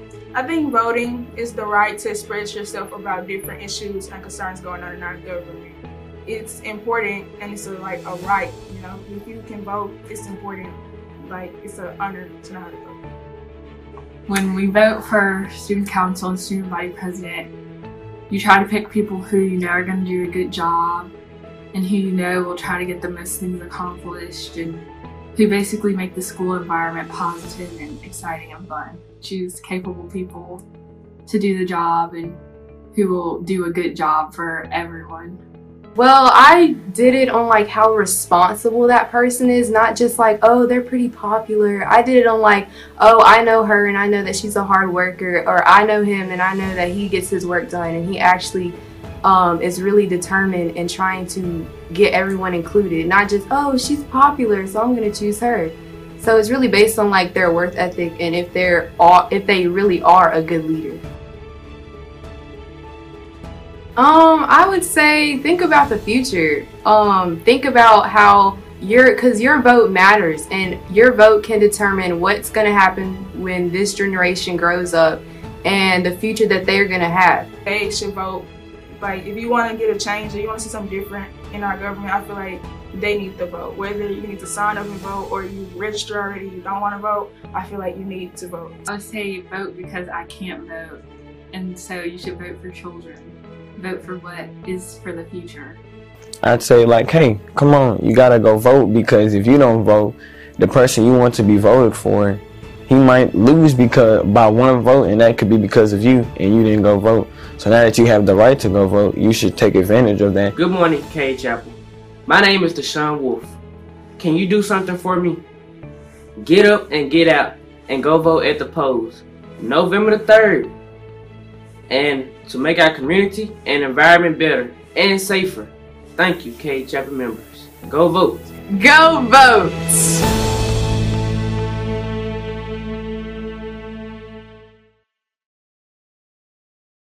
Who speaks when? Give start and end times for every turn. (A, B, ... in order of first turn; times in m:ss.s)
0:00.3-0:13.0 A
0:14.3-0:17.5 B
0:18.3-0:21.1 B
0:21.7-0:30.7 B
0:31.3-0:32.4 B
0:32.9-0:35.4 B
0:36.0-1:01.0 C
1:04.0-1:17.5 C
1:17.7-1:28.9 A
1:28.9-1:35.8 B
1:36.4-1:50.5 D
1:50.6-1:53.5 E
1:54.2-1:55.4 E
1:56.4-2:00.7 E
2:01.9-2:08.5 E
2:08.7-2:10.0 C